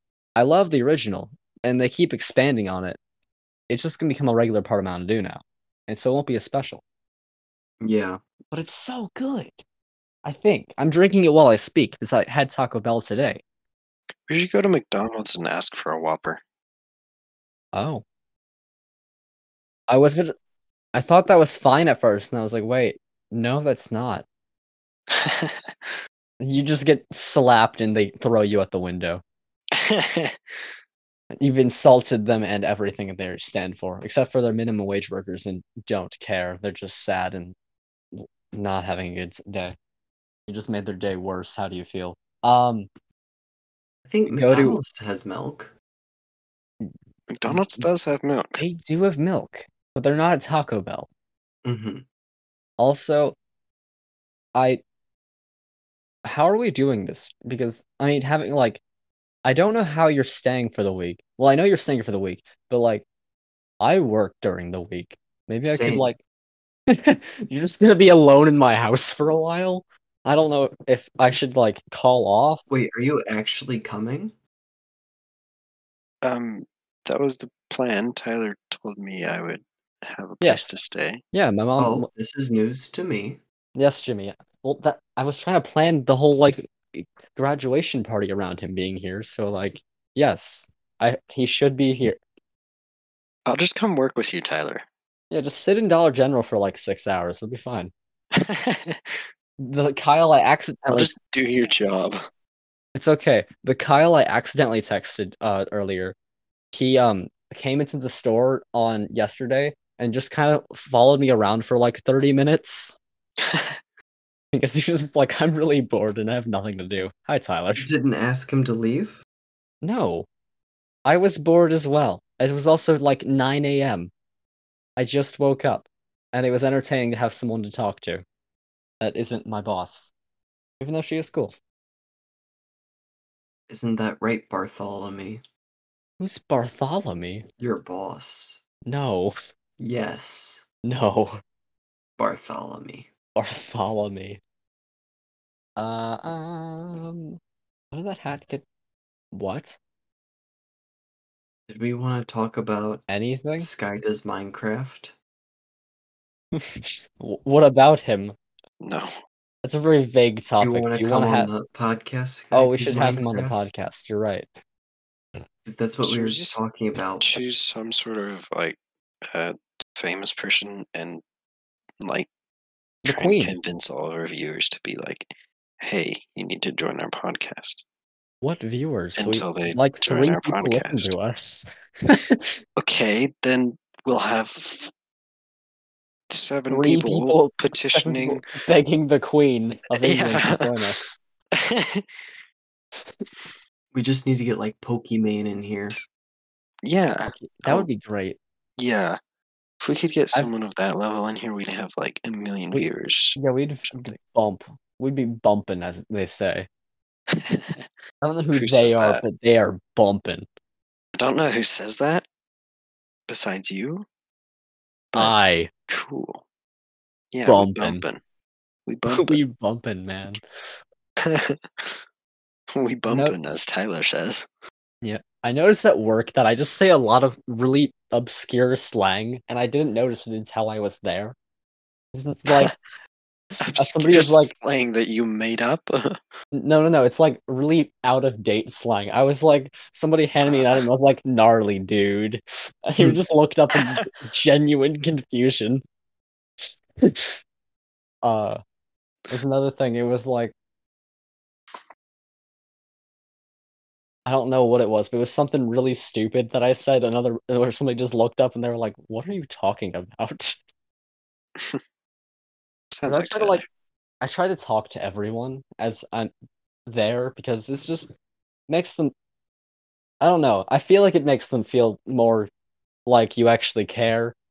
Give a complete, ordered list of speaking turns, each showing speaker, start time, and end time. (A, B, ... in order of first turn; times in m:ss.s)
0:00.4-0:03.0 A
0:03.7-0:06.8 A
0:07.8-0:08.2 B
0:08.5-0:09.6 A
0:10.2-0:13.4 A
0:14.3-0:16.4 C
0:17.7-0:18.0 A
0:19.9-0:20.3 A
0:20.9-0:24.2 A
0:25.1-0:25.9 C
0:26.4-0:29.2 A
0:29.8-0:30.4 C
0:31.4-0:37.6 A
0:38.1-0:39.7 A
0:40.5-0:42.9 A
0:44.0-0:45.7 B
0:44.3-0:44.8 A
0:47.3-0:48.6 C
0:47.4-0:47.9 A
0:48.6-0:51.1 A
0:51.6-0:52.0 B
0:52.8-0:53.4 A
0:54.6-0:54.8 A
0:56.2-0:58.8 A
0:59.4-1:03.0 A
1:03.8-1:06.2 A
1:05.6-1:06.1 B
1:06.9-1:12.6 A
1:12.7-1:14.3 B
1:16.2-1:21.2 C
1:20.4-1:20.8 A
1:21.3-1:22.1 A
1:21.8-1:23.4 B
1:23.8-1:32.2 A
1:33.5-1:34.8 C
1:35.3-1:37.9 A
1:38.3-1:39.2 C
1:39.6-1:41.1 A
1:40.9-1:42.2 C
1:42.9-1:46.2 A
1:46.7-1:53.0 A
1:53.4-1:53.8 C
1:54.5-1:57.9 A
1:57.8-1:59.2 B
1:59.8-2:00.3 A
2:01.0-2:04.1 A
2:05.0-2:08.2 A
2:09.0-2:10.1 A
2:10.8-2:11.5 A
2:13.7-2:15.4 B
2:16.2-2:17.4 A
2:17.6-2:18.6 B
2:18.8-2:19.3 A
2:19.8-2:20.6 B
2:20.8-2:21.4 A
2:22.2-2:23.1 B
2:23.4-2:24.4 A
2:25.8-2:27.4 A
2:27.9-2:28.6 A
2:29.3-2:29.8 A
2:31.7-2:33.0 B
2:33.1-2:33.7 A
2:33.6-2:35.1 B
2:36.6-2:38.4 A
2:38.8-2:39.1 C
2:39.6-2:41.5 A
2:40.6-2:43.6 B
2:42.5-2:44.5 A
2:45.6-2:47.4 B
2:46.0-2:46.6 C
2:47.2-2:51.2 C
2:52.0-2:52.3 C
2:53.0-2:53.5 A
2:53.0-2:57.8 C
2:58.4-3:02.5 A
2:59.2-3:01.1 C
3:02.8-3:04.9 C
3:06.3-3:08.4 C
3:06.7-3:11.1 A
3:10.0-3:10.9 C
3:11.5-3:12.2 C
3:13.9-3:16.0 B
3:16.8-3:17.9 C
3:17.2-3:18.4 A
3:18.8-3:19.2 C
3:19.8-3:23.4 C
3:22.7-3:26.7 A
3:27.3-3:27.9 C
3:28.2-3:30.5 A
3:28.5-3:29.2 C
3:31.2-3:32.2 C
3:33.3-3:34.0 C
3:35.1-3:35.7 A
3:35.9-3:36.4 C
3:37.3-3:38.2 C
3:37.4-3:38.0 A
3:38.9-3:39.4 C
3:39.0-3:40.4 A
3:41.2-3:42.0 C
3:42.7-3:44.5 C
3:43.1-3:43.4 A
3:45.0-3:51.4 A
3:52.1-3:52.7 A
3:52.5-3:52.8 C
3:53.6-3:56.2 C
3:53.7-3:54.5 A
3:56.5-4:05.8 A
4:00.4-4:00.8 C
4:03.7-4:04.1 C
4:06.6-4:07.4 A
4:08.2-4:08.6 A
4:09.3-4:10.5 A
4:14.2-4:20.6 A
4:22.9-4:23.6 C
4:23.0-4:23.6 A
4:24.2-4:26.3 A
4:26.9-4:28.1 A
4:28.7-4:29.1 A
4:30.2-4:32.5 A
4:33.0-4:34.4 A